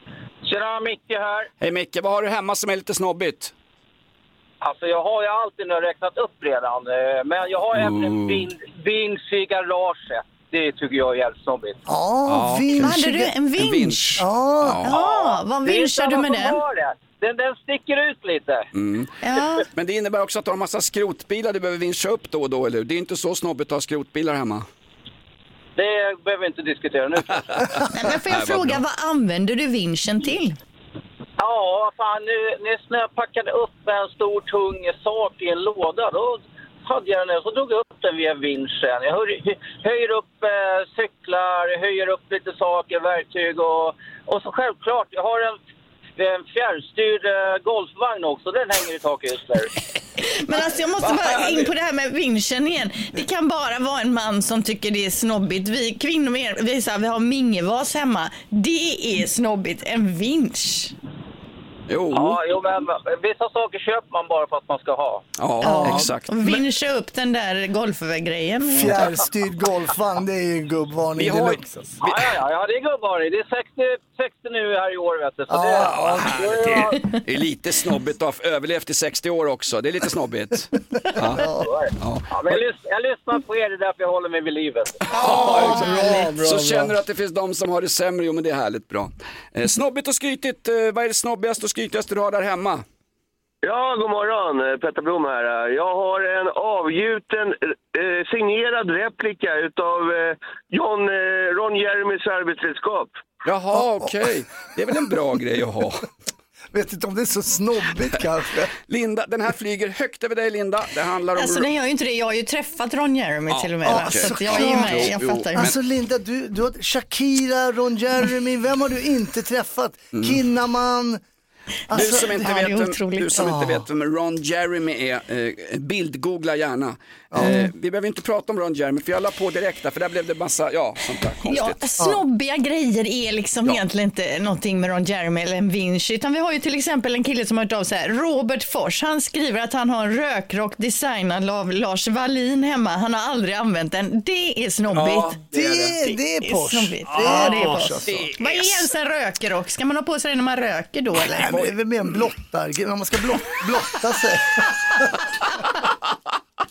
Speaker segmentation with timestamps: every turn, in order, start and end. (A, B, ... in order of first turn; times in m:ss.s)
0:00.4-0:01.5 A
0:01.6-0:03.5 B
0:04.6-0:11.8 A
0:07.7-0:08.5 B
0:11.9-0:13.3 C
0:12.3-0:13.0 B
0:12.8-0:14.2 D
0:13.6-0:15.0 B
0:14.2-0:14.8 C
0:14.8-0:16.6 D
0:14.9-0:18.7 A
0:18.7-0:19.1 B
0:19.2-0:19.6 D
0:19.7-0:24.6 B
0:25.8-0:27.7 A
0:27.8-0:28.8 B
0:27.9-0:30.6 D
0:31.4-0:45.6 A
0:46.2-0:49.7 A
0:50.2-1:00.9 D
1:01.9-1:02.4 B
1:02.1-1:05.2 A
1:05.4-1:06.6 B
1:05.6-1:09.2 D
1:08.7-1:11.9 C
1:11.2-1:12.4 B
1:12.0-1:17.0 A
1:15.5-1:16.4 C
1:15.8-1:21.4 B
1:21.3-1:21.7 C
1:21.6-1:24.9 A
1:22.0-1:22.6 B
1:25.1-1:32.8 B
1:25.2-1:27.0 C
1:25.4-1:26.2 D
1:33.6-1:43.1 E
1:43.4-1:46.1 B
1:43.8-1:44.1 C
1:46.7-1:48.7 C
1:48.9-1:51.7 B
1:51.4-1:55.7 D
1:53.5-1:55.8 B
1:53.8-2:01.2 C
2:00.1-2:00.4 B
2:01.9-2:02.4 C
2:01.9-2:03.3 D
2:01.9-2:11.8 B
2:03.4-2:03.9 C
2:07.3-2:07.6 C
2:07.4-2:07.7 D
2:11.5-2:25.4 D
2:24.9-2:25.9 B
2:25.5-2:28.3 C
2:26.0-2:31.6 D
2:27.1-2:28.9 B
2:31.3-2:35.2 C